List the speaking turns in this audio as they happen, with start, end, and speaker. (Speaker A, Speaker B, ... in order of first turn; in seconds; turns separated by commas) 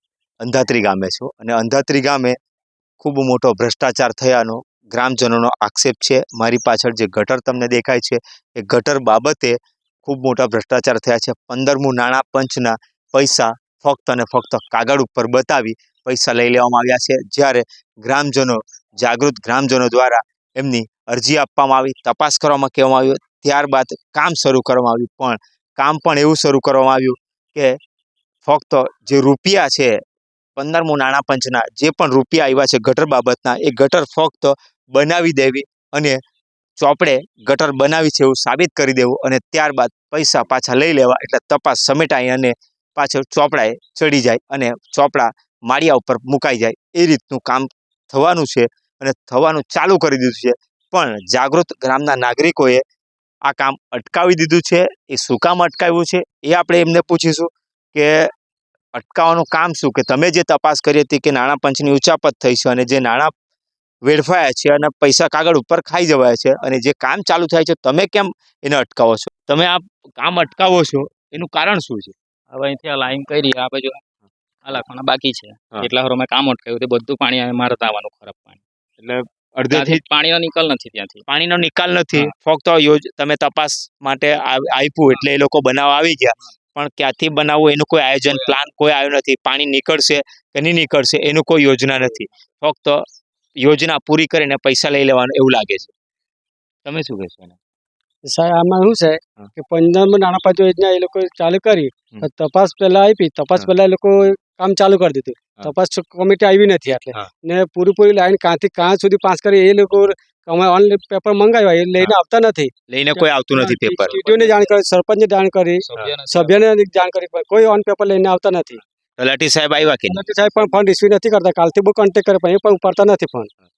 Speaker A: 0.4-2.4, Speaker A: 3.0-27.8, Speaker A: 28.4-30.0, Speaker A: 30.6-36.2, Speaker A: 36.8-52.8, Speaker A: 53.5-58.3, Speaker A: 59.0-63.3, Speaker A: 64.0-72.2, Speaker B: 72.5-74.0, Speaker B: 74.7-78.6, Speaker A: 79.0-80.0, Speaker B: 79.7-81.2, Speaker A: 81.3-93.1, Speaker B: 88.3-88.5, Speaker A: 93.6-95.9, Speaker A: 96.8-97.6, Speaker C: 98.3-118.8, Speaker A: 112.9-114.2, Speaker B: 114.1-114.5, Speaker B: 115.9-116.6, Speaker A: 119.2-120.2, Speaker C: 120.1-123.5